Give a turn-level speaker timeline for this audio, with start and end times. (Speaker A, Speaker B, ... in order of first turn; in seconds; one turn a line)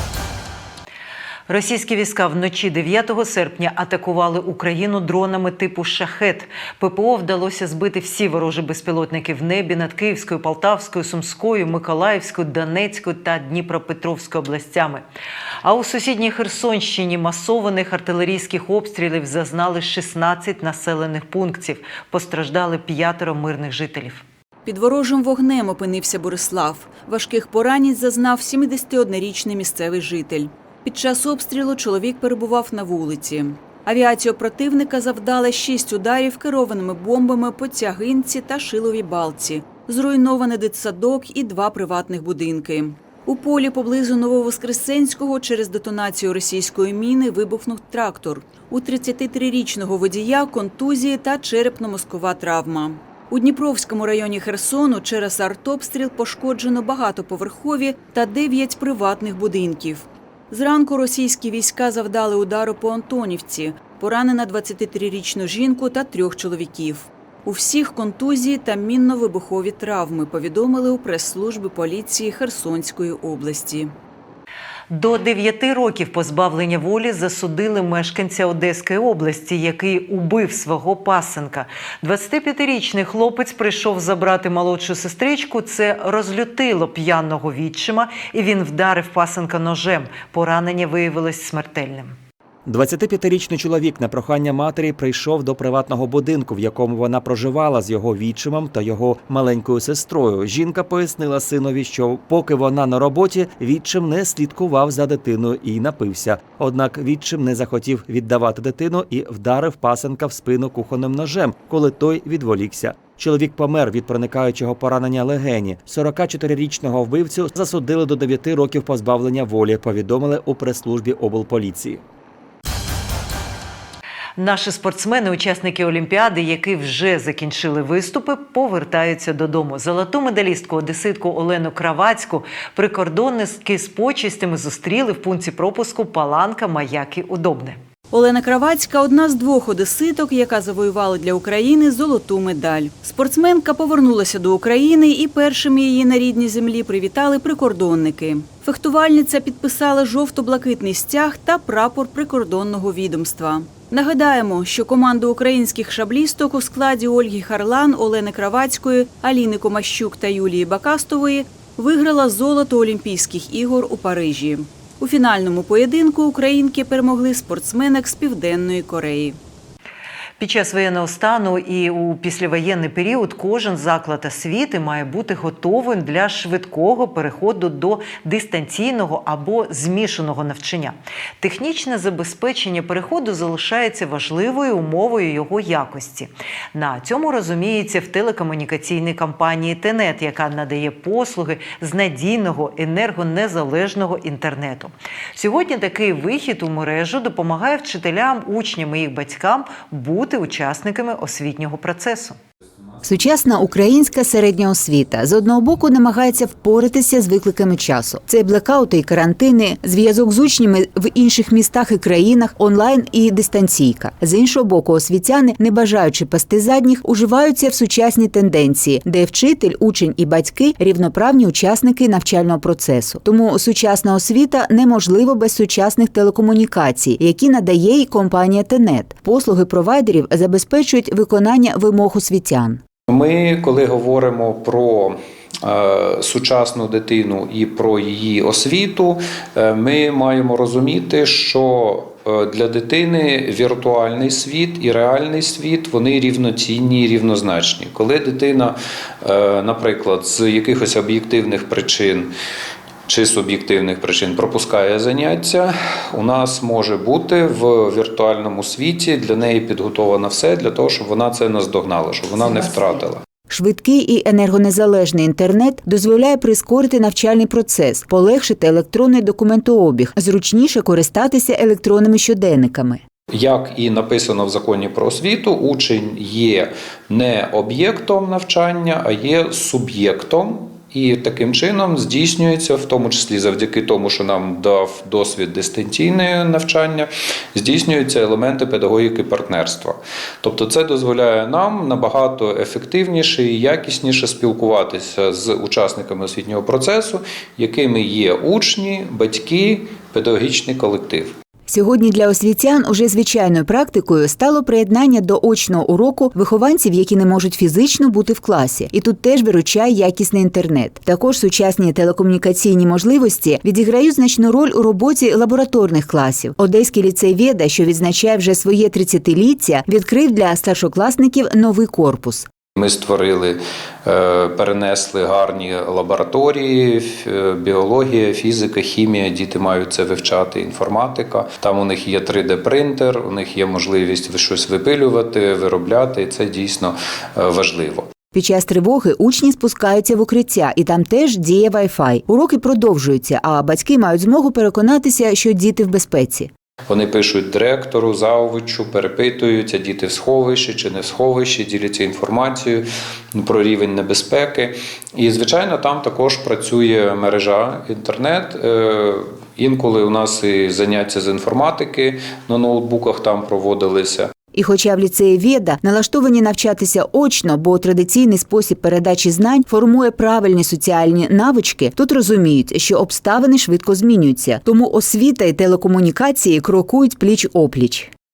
Speaker A: 1.5-15.0
Speaker A: 15.6-24.2
Speaker B: 24.6-73.9
Speaker A: 74.9-92.2
Speaker C: 92.6-122.0
Speaker A: 124.4-137.8
Speaker B: 138.1-169.4
Speaker A: 170.4-202.4
Speaker D: 203.0-232.8
Speaker E: 233.1-252.3
Speaker E: 253.1-263.2
Speaker D: 263.5-273.0
Speaker E: 273.3-301.3
Speaker D: 301.7-322.5
Speaker E: 322.7-338.1
Speaker D: 338.3-346.5
Speaker E: 346.9-364.3
Speaker D: 364.5-378.1